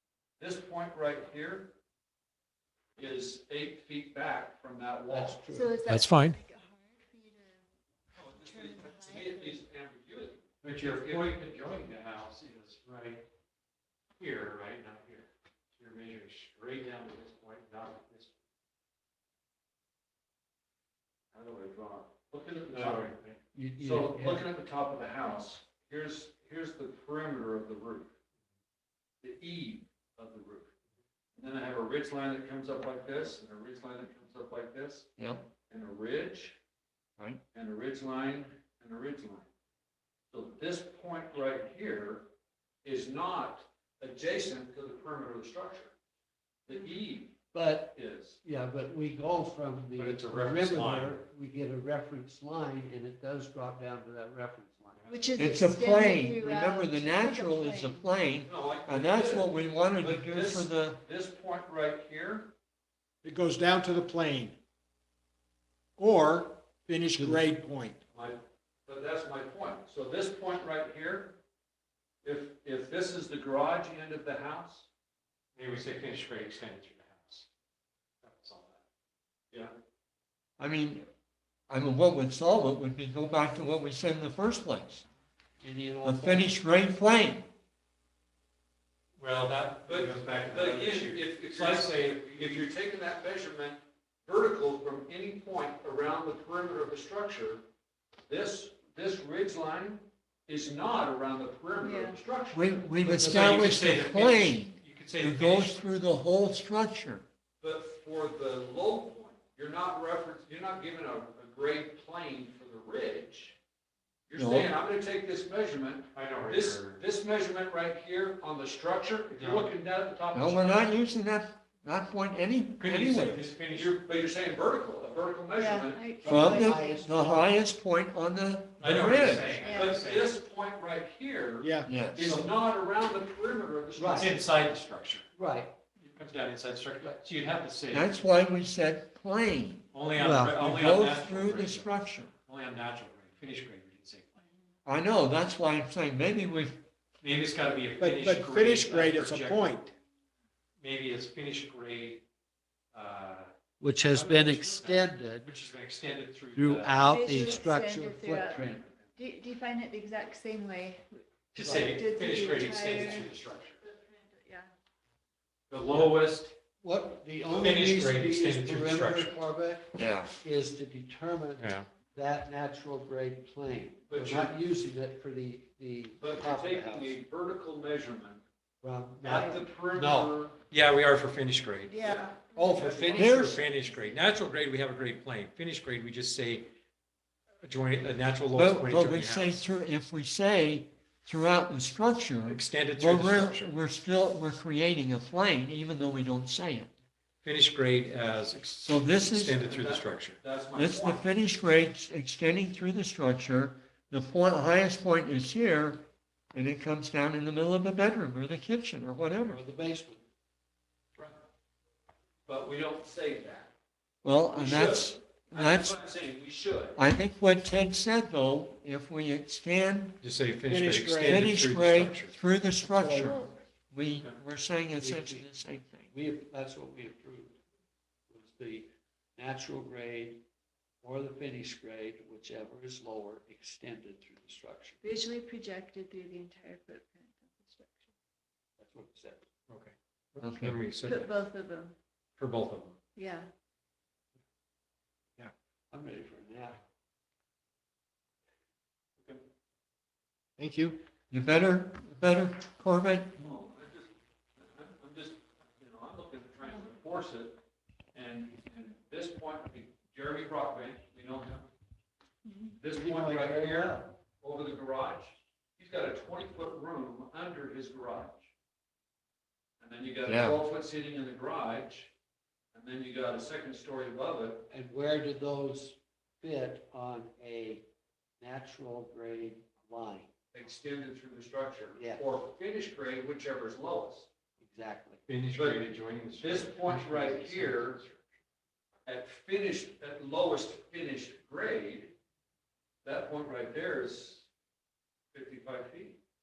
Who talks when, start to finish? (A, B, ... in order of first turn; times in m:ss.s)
0:00.4-0:01.7 A
0:03.0-0:05.4 A
0:05.1-0:05.8 B
0:05.5-0:07.7 C
0:05.8-0:06.4 D
0:08.1-0:11.3 A
0:08.3-0:09.6 C
0:10.6-0:13.2 D
0:14.2-0:15.3 D
0:15.8-0:18.3 D
0:21.3-0:23.1 A
0:22.7-0:23.4 D
0:23.5-0:24.5 B
0:23.8-0:28.1 A
0:29.2-0:30.7 A
0:31.4-0:35.1 A
0:35.2-0:35.4 E
0:35.7-0:36.6 A
0:37.5-0:39.5 A
0:40.3-0:42.3 A
0:42.8-0:45.9 A
0:46.6-0:48.4 A
0:47.5-0:55.1 B
0:49.9-0:51.2 D
0:54.9-0:55.2 D
0:55.1-0:58.1 C
0:55.4-1:01.0 E
0:58.4-1:02.5 A
1:03.2-1:04.6 F
1:06.0-1:08.0 F
1:08.1-1:11.4 A
1:12.2-1:14.9 A
1:15.6-1:17.4 D
1:18.2-1:18.8 D
1:20.6-1:21.1 E
1:21.7-1:25.0 E
1:25.6-1:26.5 B
1:26.0-1:27.5 E
1:29.2-1:32.7 D
1:29.8-1:37.6 A
1:38.3-1:42.7 A
1:41.8-1:42.2 C
1:42.5-1:47.2 E
1:43.1-1:45.8 D
1:43.2-1:43.8 B
1:47.6-1:53.6 A
1:54.3-2:00.9 A
1:54.3-1:54.7 E
1:56.1-1:57.0 D
1:59.3-1:59.7 D
2:00.3-2:03.5 E
2:02.8-2:03.9 D
2:03.7-2:06.0 A
2:05.5-2:07.2 C
2:06.2-2:07.5 B
2:06.2-2:09.6 E
2:08.8-2:10.3 D
2:09.5-2:10.0 C
2:09.6-2:14.3 A
2:11.6-2:11.9 F
2:11.8-2:12.3 E
2:12.2-2:12.5 D
2:14.0-2:14.3 B
2:14.1-2:15.2 D
2:15.3-2:15.7 B
2:16.0-2:18.2 D
2:17.9-2:19.9 E
2:19.9-2:24.4 D
2:20.2-2:20.6 B
2:20.5-2:22.3 E
2:24.8-2:26.8 E
2:27.2-2:29.7 D
2:28.0-2:29.9 F
2:30.8-2:32.2 D
2:32.9-2:33.5 D
2:33.8-2:35.6 B
2:34.1-2:37.1 D
2:36.5-2:38.9 B
2:37.0-2:38.6 C
2:38.6-2:39.1 D
2:39.2-2:44.7 C
2:41.5-2:43.8 D
2:41.6-2:42.0 B
2:45.7-2:46.6 D
2:46.8-2:57.2 B
2:47.4-2:49.3 D
2:50.0-2:50.3 E
2:51.6-2:51.9 D
2:54.1-2:54.5 A
2:56.2-2:58.4 A
2:58.8-3:00.3 B
2:59.2-3:00.6 A
2:59.3-2:59.6 C
3:00.7-3:02.0 D
3:01.8-3:04.2 C
3:02.0-3:03.6 A
3:02.6-3:06.7 D
3:03.1-3:03.6 E
3:07.6-3:09.5 D
3:08.5-3:16.9 E
3:12.5-3:13.7 D
3:17.4-3:20.4 D
3:18.8-3:19.7 E
3:19.6-3:21.3 A
3:20.7-3:29.6 E
3:29.4-3:30.2 B
3:32.4-3:33.7 A
3:34.2-3:36.0 E
3:34.5-3:37.0 A
3:37.0-3:40.2 E
3:40.2-3:42.3 D
3:40.7-3:41.5 F
3:41.2-3:46.1 E
3:42.9-3:43.5 F
3:45.0-3:45.5 B
3:46.1-3:47.6 B
3:48.3-3:50.4 B
3:51.0-3:55.0 B
3:55.0-3:58.1 C
3:58.8-3:59.4 B
3:59.7-4:01.4 D
4:00.4-4:00.8 E
4:00.5-4:02.0 C
4:02.4-4:03.0 D
4:03.2-4:03.5 C
4:05.9-4:06.8 B
4:10.6-4:11.0 F
4:11.3-4:13.4 E
4:13.4-4:17.6 A
4:18.1-4:21.7 A
4:22.4-4:22.8 C
4:22.8-4:28.5 A
4:22.9-4:24.1 B
4:29.8-4:32.1 A
4:30.2-4:30.6 E
4:32.7-4:34.7 A
4:34.7-4:37.8 B
4:38.4-4:40.3 B
4:40.5-4:44.3 A
4:42.0-4:42.2 B
4:44.6-4:45.2 B
4:45.3-4:48.2 D
4:45.5-4:45.8 A
4:46.4-4:48.0 A
4:49.0-4:52.1 A
4:53.0-4:54.5 A
4:55.3-4:56.2 A